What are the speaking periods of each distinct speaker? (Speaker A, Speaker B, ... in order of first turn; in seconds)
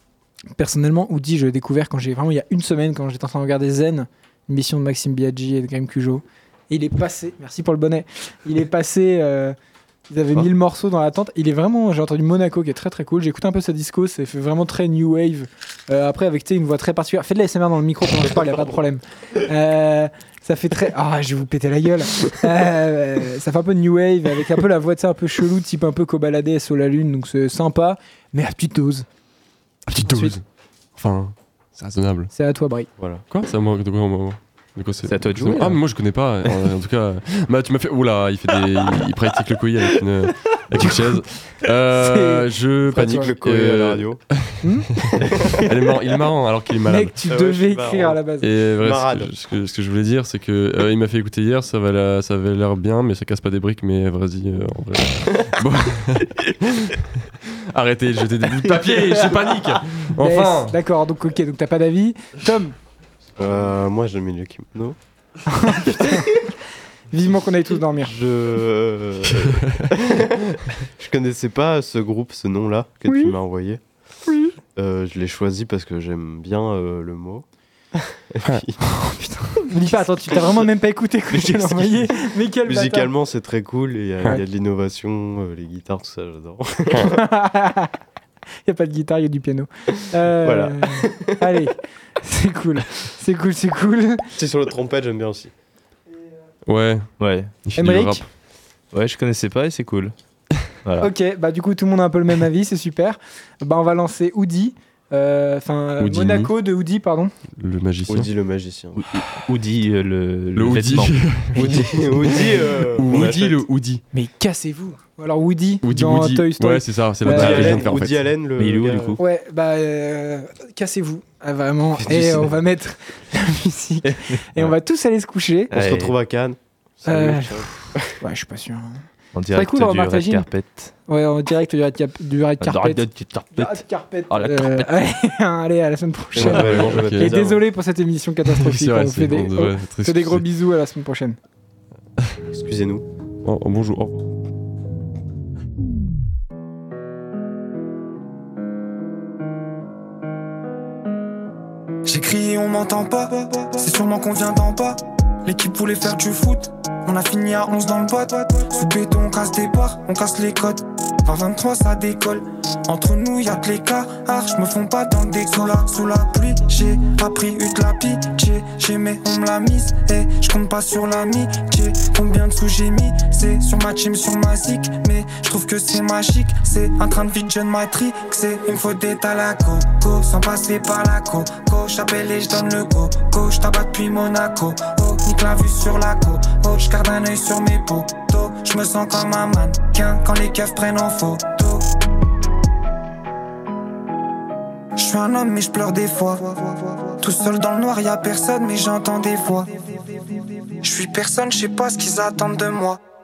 Speaker A: 0.6-9.5, 10.1-29.1, 30.0-30.4, 32.3-32.9, 40.8-41.2, 41.9-43.3, 44.6-44.9, 46.9-48.5, 60.2-62.7, 65.5-66.5, 67.1-68.1, 73.1-73.3, 74.2-74.5, 78.9-83.1, 86.9-87.9, 88.7-94.3, 97.8-98.2, 101.0-107.3, 111.5-112.2, 114.1-117.9, 119.2-125.7, 127.0-130.5, 131.1-141.4
Speaker B: 29.9-30.4, 30.9-32.3, 33.3-47.2, 48.4-60.8, 69.3-69.9, 96.7-97.1, 97.6-98.2, 106.0-106.5, 107.5-108.3, 110.5-114.0, 115.8-118.2, 136.4-137.3, 138.5-140.4, 143.4-144.2
Speaker C: 33.0-33.2, 42.9-44.2, 47.2-48.2, 48.8-49.3, 63.4-65.0, 68.0-73.8, 74.8-77.4, 78.2-78.8, 82.7-87.2, 90.4-91.4, 94.3-95.5, 108.1-109.0, 111.6-113.6, 117.3-119.2, 125.7-128.2, 136.3-137.6, 142.5-143.0
Speaker D: 35.0-35.8, 58.6-59.8, 81.3-82.2, 97.2-97.5, 98.9-100.1, 100.8-101.1, 108.9-111.8, 117.3-119.2, 122.0-122.6, 124.0-124.7, 125.7-126.1, 129.3-130.9, 132.6-134.9
Speaker E: 152.0-191.8, 195.0-203.0